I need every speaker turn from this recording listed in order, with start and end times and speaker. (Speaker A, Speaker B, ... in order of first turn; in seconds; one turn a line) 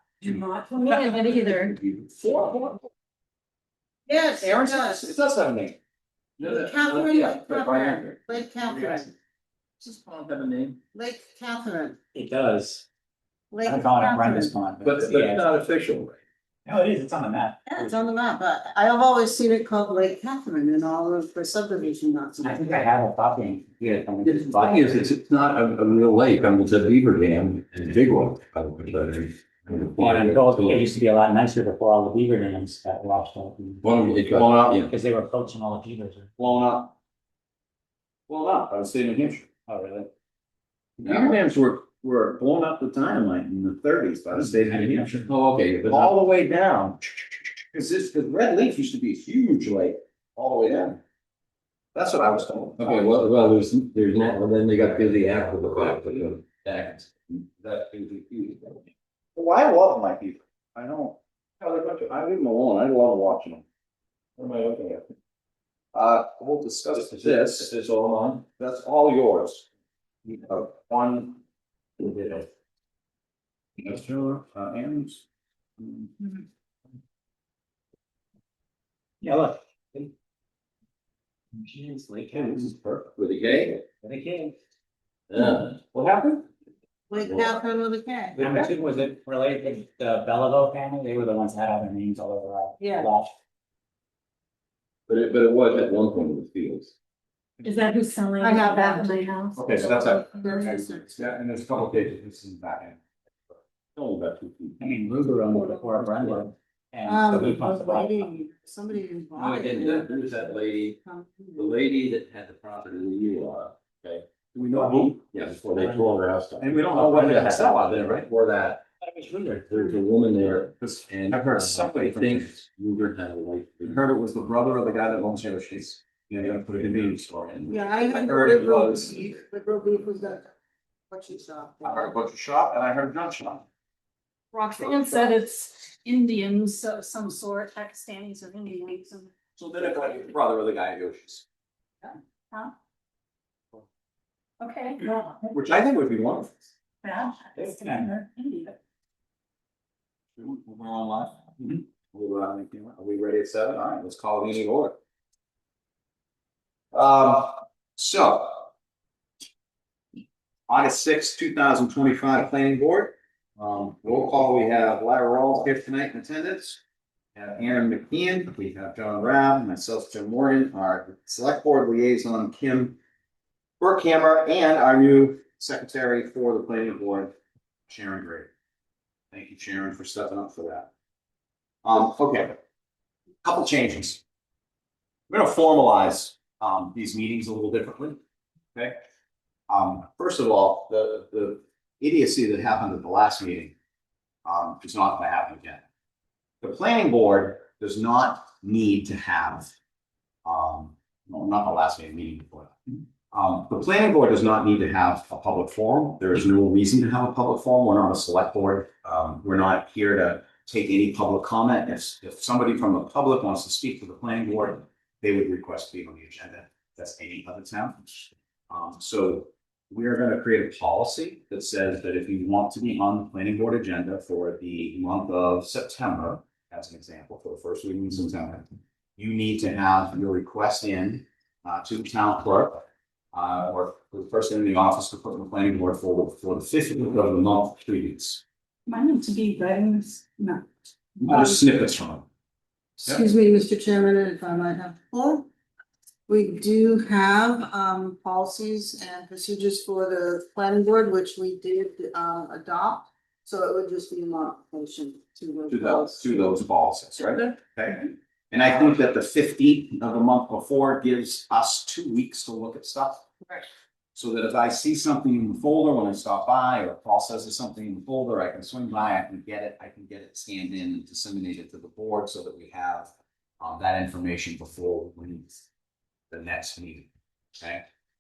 Speaker A: 0.2-1.8
Speaker B: 1.1-1.5
Speaker C: 1.9-2.9
Speaker B: 4.1-5.2
Speaker C: 4.4-5.8
Speaker D: 6.4-8.2
Speaker B: 6.4-9.1
Speaker D: 8.7-9.1
Speaker D: 9.8-10.8
Speaker B: 10.9-12.0
Speaker E: 12.1-12.9
Speaker B: 13.5-14.6
Speaker E: 13.6-15.4
Speaker D: 14.8-16.2
Speaker E: 16.7-18.0
Speaker B: 17.7-22.8
Speaker E: 22.4-25.1
Speaker D: 24.2-30.9
Speaker E: 30.0-33.8
Speaker D: 33.8-34.9
Speaker C: 34.2-34.9
Speaker E: 34.9-36.3
Speaker C: 36.4-36.9
Speaker C: 38.3-39.5
Speaker E: 39.7-40.1
Speaker C: 41.0-45.2
Speaker D: 41.0-41.4
Speaker E: 44.4-45.3
Speaker D: 45.3-46.1
Speaker C: 45.9-51.0
Speaker C: 52.0-53.2
Speaker D: 52.8-57.1
Speaker C: 54.8-56.8
Speaker D: 57.6-58.8
Speaker C: 59.4-63.6
Speaker C: 64.4-65.0
Speaker C: 65.9-67.7
Speaker D: 67.1-68.4
Speaker C: 68.4-69.7
Speaker C: 70.2-71.4
Speaker C: 72.0-72.5
Speaker C: 73.8-75.2
Speaker C: 75.8-76.3
Speaker E: 79.2-80.1
Speaker E: 81.6-82.7
Speaker C: 82.3-83.1
Speaker D: 83.2-83.8
Speaker E: 84.0-84.5
Speaker D: 85.3-85.8
Speaker C: 85.9-86.4
Speaker B: 87.1-88.4
Speaker D: 87.2-87.6
Speaker E: 88.4-93.3
Speaker B: 92.8-93.1
Speaker D: 95.1-96.9
Speaker A: 97.6-100.0
Speaker B: 98.4-99.2
Speaker C: 99.5-104.7
Speaker B: 99.8-101.1
Speaker E: 104.8-108.3
Speaker B: 107.0-111.8
Speaker D: 109.3-111.0
Speaker D: 111.5-114.2
Speaker C: 114.5-115.2
Speaker D: 115.2-118.8
Speaker E: 115.8-116.0
Speaker C: 116.6-118.8
Speaker E: 116.9-117.2
Speaker E: 119.0-119.7
Speaker D: 119.6-124.0
Speaker C: 120.6-122.6
Speaker C: 123.8-129.2
Speaker D: 126.6-127.0
Speaker B: 127.7-130.5
Speaker D: 128.0-128.8
Speaker B: 131.1-132.2
Speaker C: 131.8-133.7
Speaker B: 134.5-135.3
Speaker A: 134.7-139.3
Speaker C: 139.6-141.4
Speaker A: 144.6-145.5
Speaker C: 145.5-146.6
Speaker A: 147.0-148.8
Speaker E: 147.6-148.1
Speaker C: 150.4-155.0
Speaker C: 156.9-158.7
Speaker C: 160.7-166.8
Speaker C: 167.4-173.0
Speaker C: 173.8-177.3
Speaker C: 177.9-178.5
Speaker C: 179.3-180.9
Speaker C: 181.8-182.6
Speaker C: 183.4-184.2
Speaker C: 185.3-188.2
Speaker C: 188.7-189.0
Speaker C: 189.7-193.8
Speaker C: 194.4-195.8
Speaker C: 196.6-199.7
Speaker C: 200.4-202.8
Speaker C: 203.3-228.7
Speaker C: 229.2-238.4
Speaker A: 238.9-240.7
Speaker C: 241.2-242.3
Speaker B: 241.3-241.6
Speaker B: 243.0-245.5
Speaker B: 246.3-256.6
Speaker C: 255.7-263.2
Speaker C: 264.1-275.6
Speaker C: 276.3-277.9